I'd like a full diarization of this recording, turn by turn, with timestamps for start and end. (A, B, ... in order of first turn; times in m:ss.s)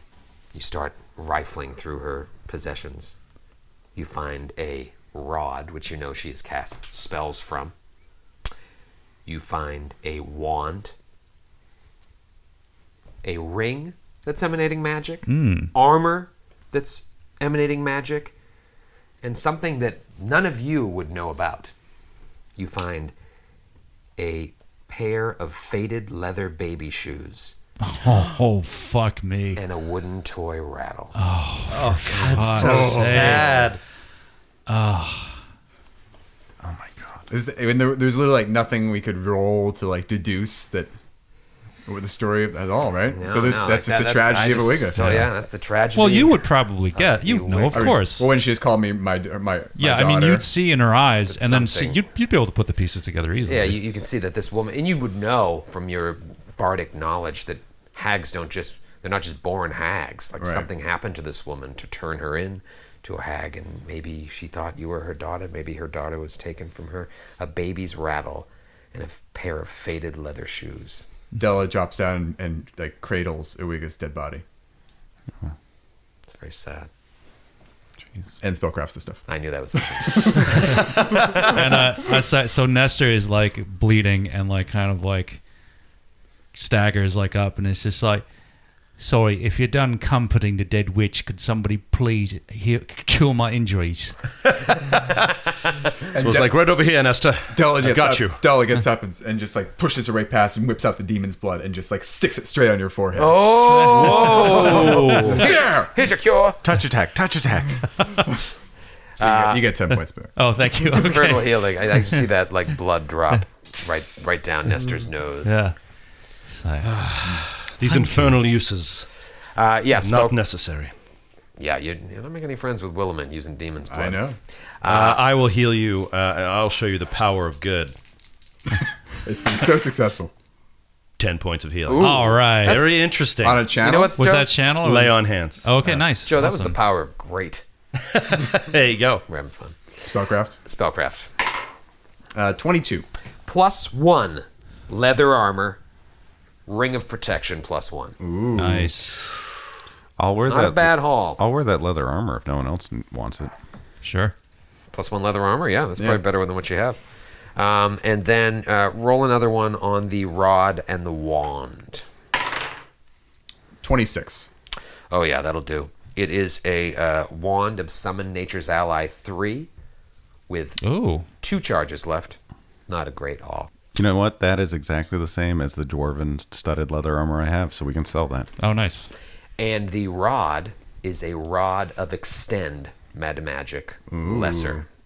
0:00.5-0:03.1 A
0:03.9-0:07.7 A
0:09.2-0:10.9 A
0:13.2-0:18.3 A
0:15.3-0:15.7 B
0:19.2-0:21.7 A
0:22.6-0:23.1 A
0:24.2-0:27.6 A
0:27.8-0:29.6 B
0:29.6-0:31.1 A
0:31.2-0:33.6 B
0:31.7-0:33.8 C
0:32.5-0:33.5 D
0:34.7-0:35.4 B
0:36.6-0:37.2 E
0:37.3-0:40.9 D
0:41.8-0:45.2 D
0:43.1-0:48.0 A
0:45.0-0:45.3 B
0:45.9-0:48.3 B
0:47.7-0:50.4 D
0:49.8-0:53.8 B
0:51.3-0:52.0 A
0:53.4-1:11.0 A
1:00.4-1:00.7 D
1:11.3-1:14.4 D
1:16.3-1:16.9 A
1:18.4-1:19.2 D
1:19.3-1:21.6 A
1:19.8-1:21.5 D
1:21.2-1:25.4 B
1:26.5-1:28.2 B
1:29.0-1:34.2 B
1:36.1-1:36.6 D
1:36.2-1:38.4 C
1:37.5-1:43.6 D
1:43.2-1:46.6 A
1:43.8-1:45.4 C
1:43.9-1:45.1 B
1:44.7-1:45.9 D
1:46.6-1:47.8 E
1:49.2-1:49.7 A
1:49.2-1:50.3 D
1:50.4-1:52.2 B
1:50.8-1:55.6 A
1:55.4-1:55.7 B
1:56.5-1:56.9 B
1:56.8-1:59.1 C
1:57.8-1:58.4 B
1:59.6-2:00.4 A
2:00.0-2:00.9 C
2:01.6-2:04.2 A
2:03.9-2:04.4 D
2:04.8-2:05.2 A
2:04.8-2:07.9 C
2:09.2-2:10.3 D
2:11.2-2:13.7 C
2:11.9-2:12.9 A
2:11.9-2:12.9 B
2:13.4-2:14.2 D
2:13.8-2:14.5 A
2:14.2-2:16.8 B
2:14.8-2:15.7 C
2:16.2-2:17.6 A
2:18.0-2:19.2 C
2:19.3-2:19.8 A
2:20.0-2:20.6 D
2:20.6-2:21.3 A
2:22.3-2:23.0 D
2:23.4-2:25.8 A
2:26.7-2:28.2 A
2:28.2-2:29.3 D
2:28.6-2:29.4 B
2:30.2-2:33.5 E
2:30.5-2:31.4 A
2:34.0-2:34.3 B
2:34.9-2:37.0 A
2:36.0-2:36.2 D
2:37.6-2:42.0 A
2:43.8-2:44.5 D
2:45.1-2:49.7 A
2:50.5-2:50.8 A
2:50.8-2:51.3 B
2:51.4-2:53.7 A
2:53.9-2:58.5 E
2:58.6-2:59.1 B
2:59.6-3:04.8 A
3:04.1-3:04.8 D